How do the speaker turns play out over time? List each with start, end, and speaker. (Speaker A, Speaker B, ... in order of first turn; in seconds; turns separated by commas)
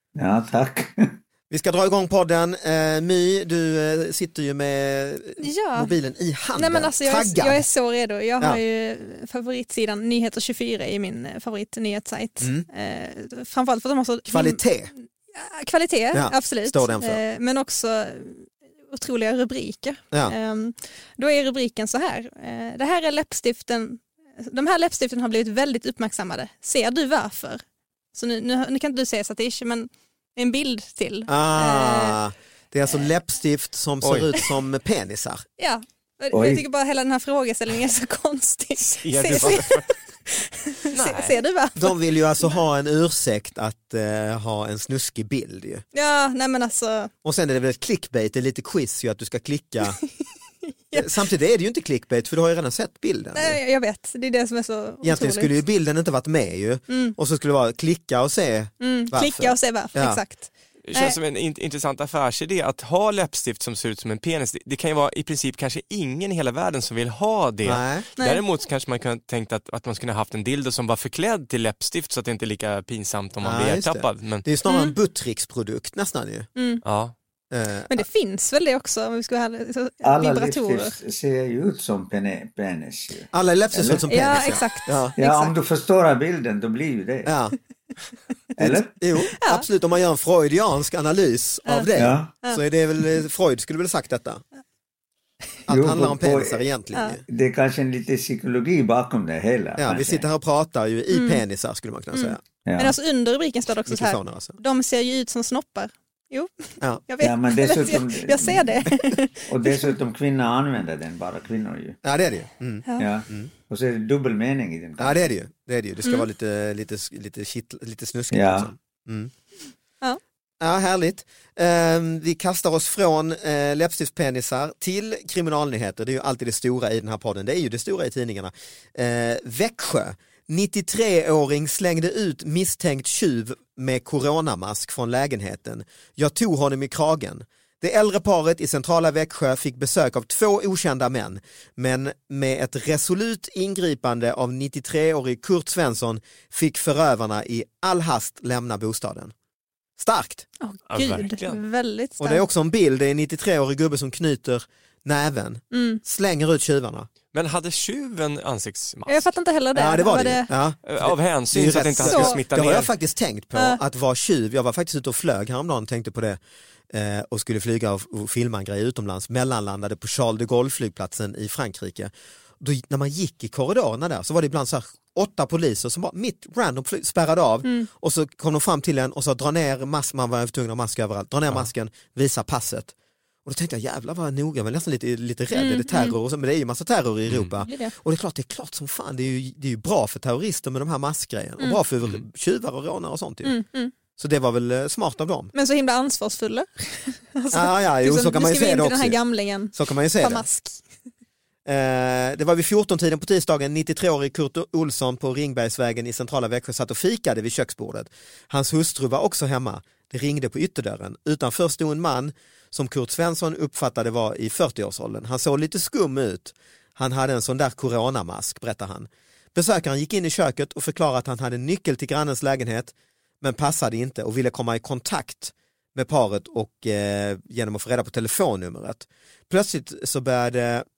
Speaker A: 0.1-1.2, Speaker B: 1.5-7.7, Speaker C: 5.4-5.9, Speaker C: 6.5-14.6, Speaker B: 12.4-12.7, Speaker B: 14.3-14.9, Speaker C: 15.3-27.6, Speaker B: 16.1-17.2, Speaker C: 28.1-32.2, Speaker B: 31.3-35.4, Speaker D: 34.0-34.3, Speaker C: 35.6-42.0, Speaker A: 36.3-36.6, Speaker D: 38.8-39.9, Speaker D: 40.9-41.4, Speaker B: 41.8-45.8, Speaker C: 45.9-47.1, Speaker B: 47.2-50.0, Speaker B: 50.9-53.6, Speaker C: 53.3-55.5, Speaker B: 55.0-60.2, Speaker C: 56.9-57.1, Speaker C: 58.8-61.2, Speaker D: 60.8-74.4, Speaker B: 67.6-68.0, Speaker C: 68.2-68.4, Speaker B: 73.4-76.5, Speaker C: 74.7-74.9, Speaker C: 76.5-76.8, Speaker D: 76.8-77.1, Speaker B: 77.5-78.1, Speaker C: 77.9-81.0, Speaker A: 80.0-84.1, Speaker B: 83.3-85.1, Speaker C: 84.1-85.5, Speaker A: 85.2-87.3, Speaker B: 87.2-87.5, Speaker A: 88.6-89.0, Speaker B: 88.6-94.4, Speaker C: 89.3-89.7, Speaker A: 92.0-92.3, Speaker B: 95.7-97.2, Speaker A: 95.7-96.6, Speaker A: 97.2-100.2, Speaker B: 99.8-102.4, Speaker C: 101.1-101.4, Speaker C: 102.1-109.9, Speaker A: 102.6-103.0, Speaker B: 103.8-104.6, Speaker A: 107.2-108.8, Speaker A: 109.5-112.0, Speaker B: 112.0-113.5, Speaker A: 113.0-115.2, Speaker B: 115.0-119.3, Speaker A: 118.3-118.7, Speaker B: 120.6-149.3, Speaker B: 150.0-150.4, Speaker C: 150.6-152.4, Speaker D: 150.9-151.6, Speaker B: 152.2-157.1, Speaker C: 155.7-156.0, Speaker D: 157.3-159.3, Speaker C: 159.1-160.5, Speaker B: 159.7-166.4, Speaker D: 160.8-162.9, Speaker C: 162.0-162.4, Speaker C: 163.5-163.8, Speaker B: 166.9-182.9, Speaker B: 183.4-193.6, Speaker C: 185.5-186.2, Speaker D: 187.3-187.5, Speaker C: 187.6-187.9, Speaker C: 193.4-193.9, Speaker B: 194.2-195.5, Speaker C: 195.5-200.8, Speaker B: 197.5-199.2, Speaker B: 199.7-200.4, Speaker B: 201.7-230.8